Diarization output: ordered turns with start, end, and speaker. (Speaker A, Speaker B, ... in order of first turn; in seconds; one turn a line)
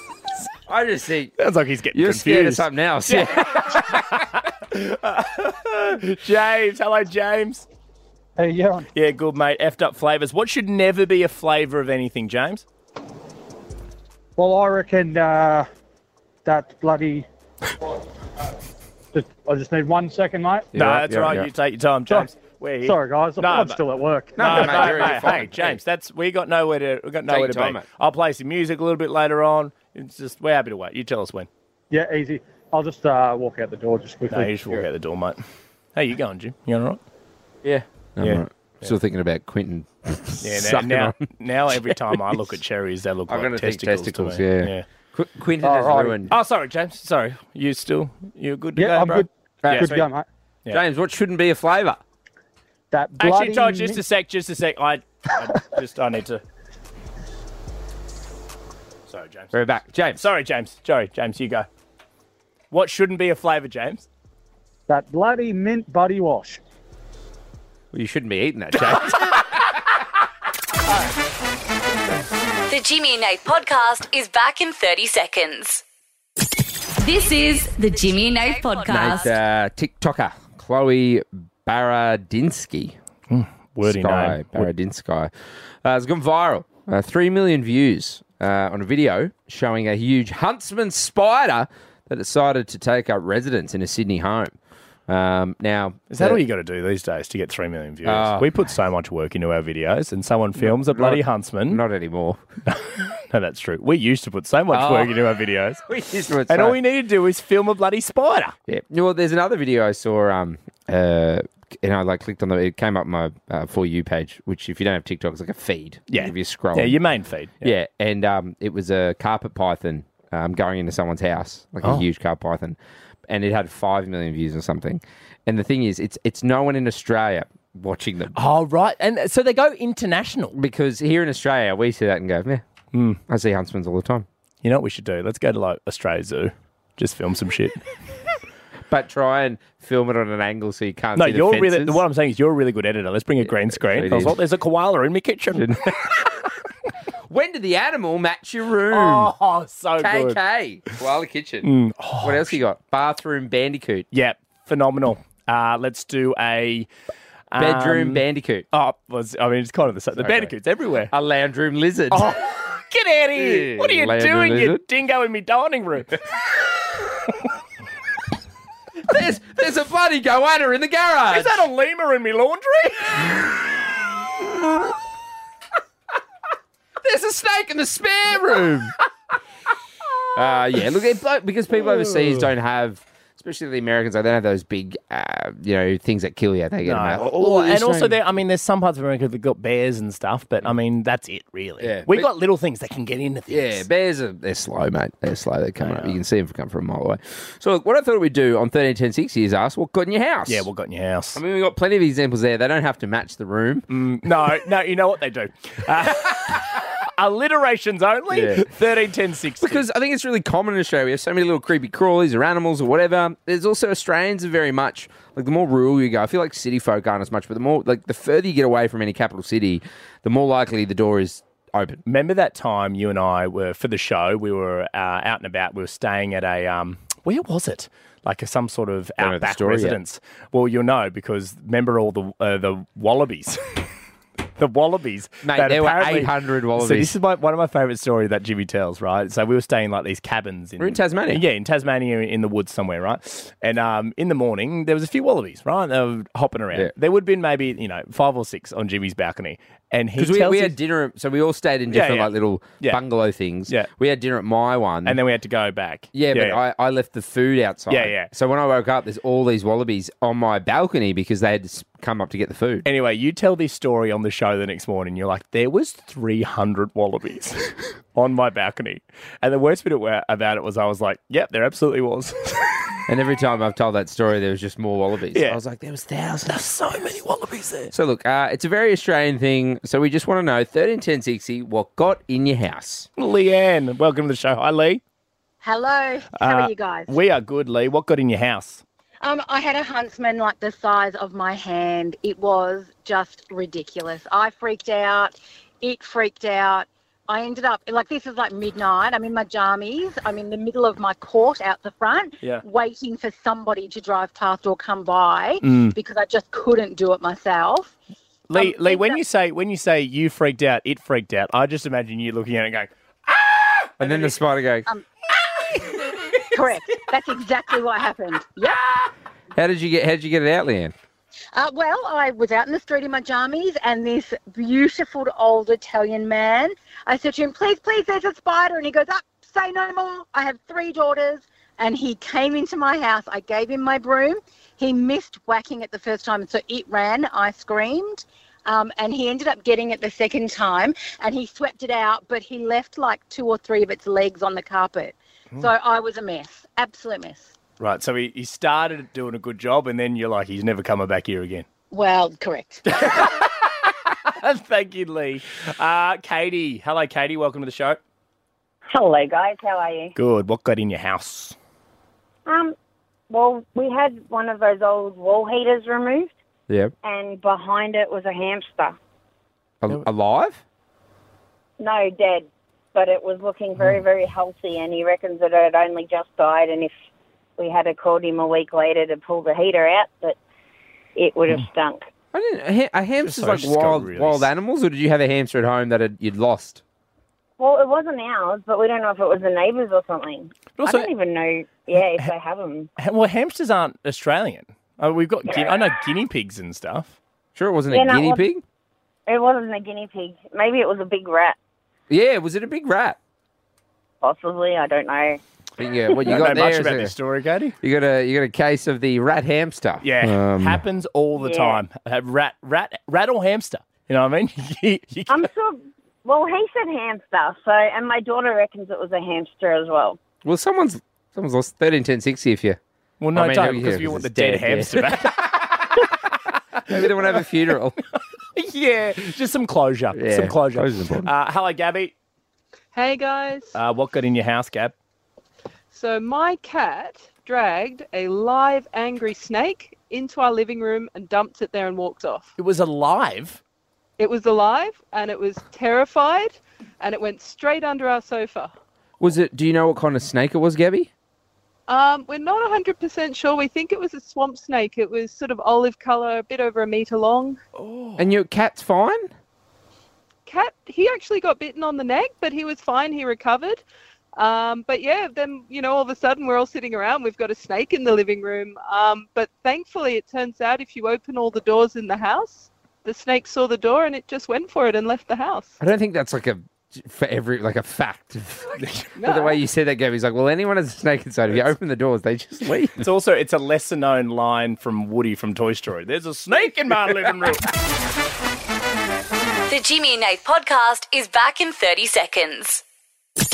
Speaker A: 0.7-1.3
Speaker B: 1.4-7.7
Speaker A: 1.9-4.0
Speaker C: 8.4-8.9
Speaker B: 8.9-12.7
Speaker C: 14.4-15.7
Speaker C: 16.4-17.3
Speaker C: 19.1-20.7
Speaker A: 20.7-21.5
Speaker B: 20.8-23.8
Speaker C: 22.9-25.2
Speaker A: 24.4-25.8
Speaker B: 24.4-31.5
Speaker A: 27.3-27.9
Speaker C: 31.9-34.8
Speaker B: 34.3-35.4
Speaker B: 36.0-37.0
Speaker A: 37.6-42.4
Speaker B: 38.2-39.0
Speaker B: 40.4-44.9
Speaker A: 43.3-46.3
Speaker C: 45.6-46.2
Speaker B: 46.3-50.0
Speaker C: 48.8-50.2
Speaker A: 49.6-50.1
Speaker A: 50.7-52.0
Speaker C: 52.9-54.0
Speaker B: 53.2-56.4
Speaker B: 59.1-59.5
Speaker A: 59.5-60.2
Speaker B: 60.2-61.7
Speaker B: 62.7-64.1
Speaker C: 64.9-66.6
Speaker A: 67.9-69.6
Speaker B: 68.9-69.1
Speaker D: 72.7-75.8
Speaker D: 77.0-79.3
Speaker A: 78.9-83.0
Speaker B: 83.3-84.7
Speaker A: 83.8-85.3
Speaker A: 85.8-94.6
Speaker A: 95.1-96.4
Speaker B: 96.1-101.8
Speaker A: 98.0-98.5
Speaker A: 100.6-102.4
Speaker B: 102.7-105.8
Speaker A: 104.7-105.2
Speaker A: 105.9-106.8
Speaker B: 106.5-108.5
Speaker A: 108.7-117.0
Speaker B: 116.1-117.7
Speaker A: 117.6-122.8
Speaker A: 123.3-128.4
Speaker B: 128.3-130.6
Speaker A: 130.5-132.6
Speaker B: 132.9-133.2
Speaker A: 133.3-134.3
Speaker B: 134.6-137.8
Speaker A: 138.9-142.0
Speaker B: 141.2-145.7
Speaker A: 143.4-144.4
Speaker A: 145.5-146.3
Speaker A: 147.3-149.3
Speaker B: 148.9-150.4
Speaker A: 150.0-151.7
Speaker B: 151.6-152.6
Speaker A: 152.2-154.1
Speaker B: 154.1-156.9
Speaker B: 157.5-161.1
Speaker A: 157.6-158.7
Speaker A: 160.2-160.5
Speaker A: 161.1-162.4
Speaker B: 162.1-166.2
Speaker A: 163.3-164.8
Speaker A: 169.1-171.6
Speaker B: 171.3-173.4
Speaker A: 177.0-178.9
Speaker A: 180.3-188.2
Speaker B: 186.8-193.9
Speaker A: 191.8-192.3
Speaker A: 193.5-200.7
Speaker B: 195.8-196.2
Speaker B: 200.5-201.4
Speaker A: 201.3-203.8
Speaker B: 203.9-209.9
Speaker A: 208.3-208.7
Speaker A: 209.6-222.0
Speaker B: 222.1-233.6
Speaker A: 229.2-230.0
Speaker B: 234.6-250.8
Speaker A: 235.4-237.1
Speaker A: 240.8-241.4
Speaker A: 250.2-255.2
Speaker B: 251.9-253.0
Speaker B: 255.1-256.6
Speaker A: 256.1-262.9
Speaker B: 257.9-258.3
Speaker B: 262.9-272.7
Speaker A: 273.1-276.6
Speaker B: 275.3-275.6
Speaker B: 276.5-277.9
Speaker A: 277.9-283.1
Speaker B: 283.2-285.0
Speaker E: 285.6-287.2
Speaker B: 286.4-288.8
Speaker E: 289.2-307.9
Speaker B: 305.6-305.9
Speaker B: 308.5-314.4
Speaker E: 308.5-309.2
Speaker A: 314.0-314.9
Speaker E: 316.5-319.1
Speaker A: 319.6-320.9
Speaker E: 321.5-347.5
Speaker B: 347.8-351.7
Speaker E: 351.9-353.2
Speaker B: 352.9-353.5
Speaker B: 354.2-358.0
Speaker F: 358.9-360.1
Speaker B: 360.2-361.6
Speaker F: 362.5-362.7
Speaker F: 363.3-366.3
Speaker F: 367.0-369.0
Speaker A: 369.8-370.6
Speaker F: 371.8-376.9
Speaker F: 377.6-380.4
Speaker F: 381.2-382.1
Speaker A: 382.3-386.8
Speaker B: 383.2-384.5
Speaker F: 387.6-392.9
Speaker B: 390.8-391.1
Speaker B: 391.9-392.3
Speaker B: 393.0-397.2
Speaker F: 395.5-395.8
Speaker A: 397.6-398.6
Speaker F: 397.9-398.5
Speaker F: 399.3-401.6
Speaker A: 402.1-403.2
Speaker F: 404.2-405.4
Speaker A: 405.8-407.1
Speaker B: 406.2-407.8
Speaker A: 407.8-410.8
Speaker B: 410.0-415.5
Speaker F: 411.4-411.8
Speaker F: 415.3-420.2
Speaker A: 420.4-422.8
Speaker B: 423.2-425.4
Speaker A: 423.3-425.4
Speaker B: 426.9-427.4
Speaker A: 426.9-428.0
Speaker B: 428.6-432.1
Speaker A: 430.1-431.3
Speaker G: 432.9-433.7
Speaker B: 433.7-434.9
Speaker G: 435.9-442.5
Speaker B: 442.6-443.6
Speaker G: 444.2-448.7
Speaker A: 449.2-451.1
Speaker G: 451.9-457.6
Speaker B: 457.8-458.2
Speaker A: 458.2-459.3
Speaker G: 460.5-463.8
Speaker G: 464.4-475.8
Speaker A: 475.8-483.1
Speaker B: 478.8-479.1
Speaker G: 479.2-479.6
Speaker B: 483.0-487.7
Speaker D: 489.7-492.8